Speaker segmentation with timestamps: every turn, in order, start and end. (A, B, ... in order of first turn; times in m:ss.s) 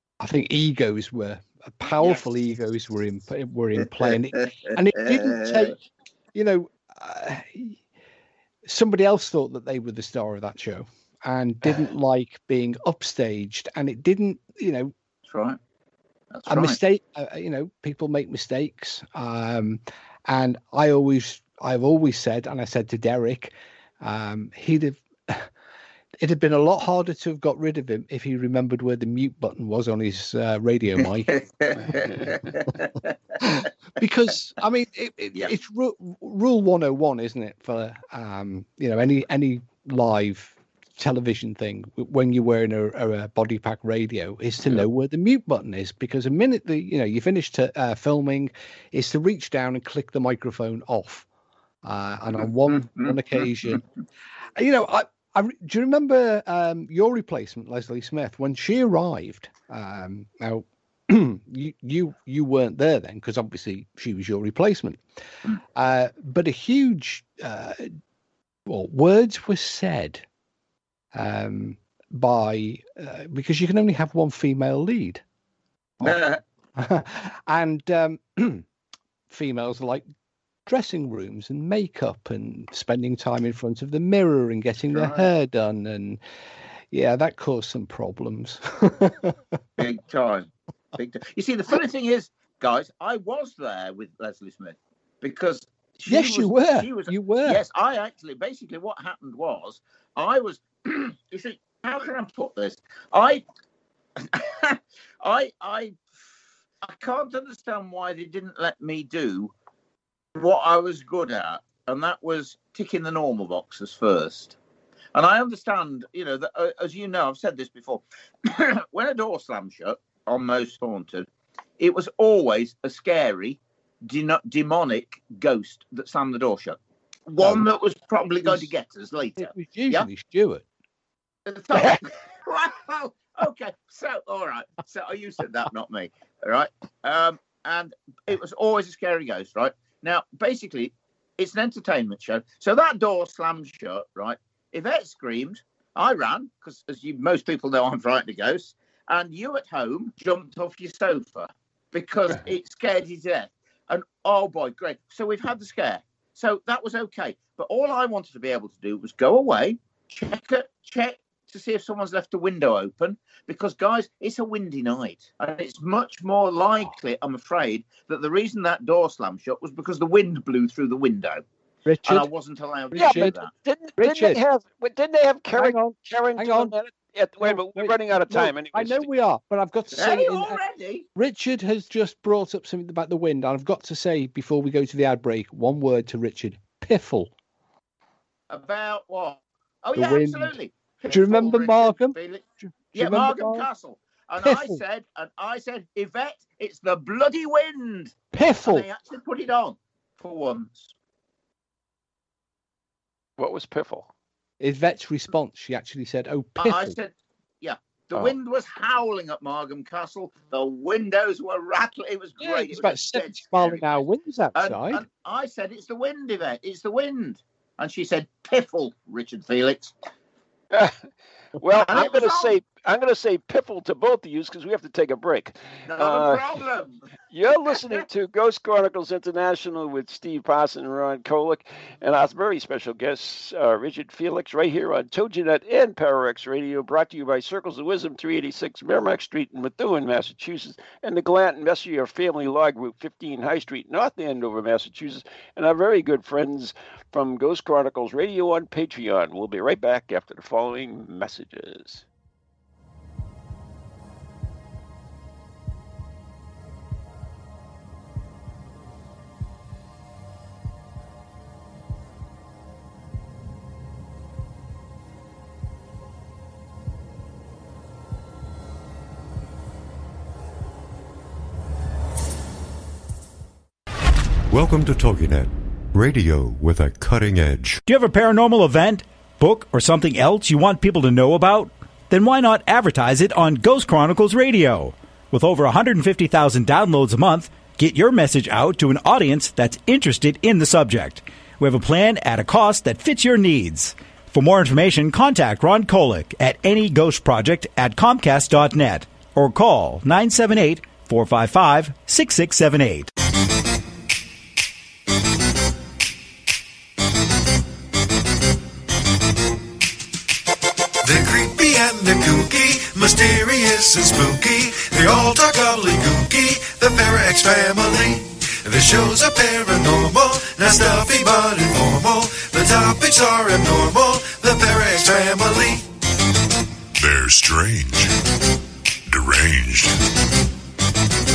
0:00.2-0:05.8 A
0:04.0-0:05.7 B
0:06.3-0:07.8 A
0:08.6-0:14.9 A
0:15.3-0:15.6 B
0:16.3-0:16.8 B
0:16.5-0:25.5 A
0:26.2-0:31.4 A
0:31.0-0:33.7 B
0:31.8-0:32.4 C
0:33.4-0:51.3 A
0:51.8-0:53.8 A
0:52.4-0:53.8 B
0:54.6-1:05.0 A
1:05.8-1:07.9 A
1:08.6-1:10.2 A
1:11.1-1:15.2 A
1:16.0-1:16.4 B
1:16.8-1:18.6 A
1:19.3-1:20.1 A
1:20.6-1:26.2 A
1:24.9-1:25.3 B
1:26.9-1:29.4 A
1:29.8-1:43.4 B
1:36.1-1:37.6 A
1:44.2-1:46.0 B
1:46.8-1:49.5 B
1:50.4-1:54.6 B
1:55.1-2:01.3 B
2:01.8-2:10.1 B
2:07.4-2:07.6 A
2:09.4-2:10.6 A
2:11.5-2:51.4 B
2:51.9-2:52.3 A
2:52.0-2:53.5 B
2:52.9-2:53.4 A
2:53.0-2:59.1 C
2:54.0-2:54.4 A
2:55.6-2:56.7 A
2:57.4-3:00.6 A
2:59.9-3:01.0 B
3:01.1-3:07.3 A
3:08.5-3:20.9 B
3:09.9-3:10.5 A
3:11.1-3:13.7 A
3:14.4-3:14.8 A
3:18.3-3:18.9 A
3:23.4-3:24.1 C
3:24.6-3:27.0 A
3:26.6-3:33.9 B
3:32.4-3:35.0 A
3:34.6-3:39.9 B
3:40.7-3:41.0 C
3:41.6-3:46.4 C
3:41.7-3:42.6 B
3:45.9-3:47.0 B
3:47.3-4:12.1 C
3:47.6-3:48.0 B
4:34.5-4:37.8 D
4:37.9-5:03.1 E
5:11.0-5:25.9 F
5:27.0-5:28.1 G
5:29.1-5:30.0 G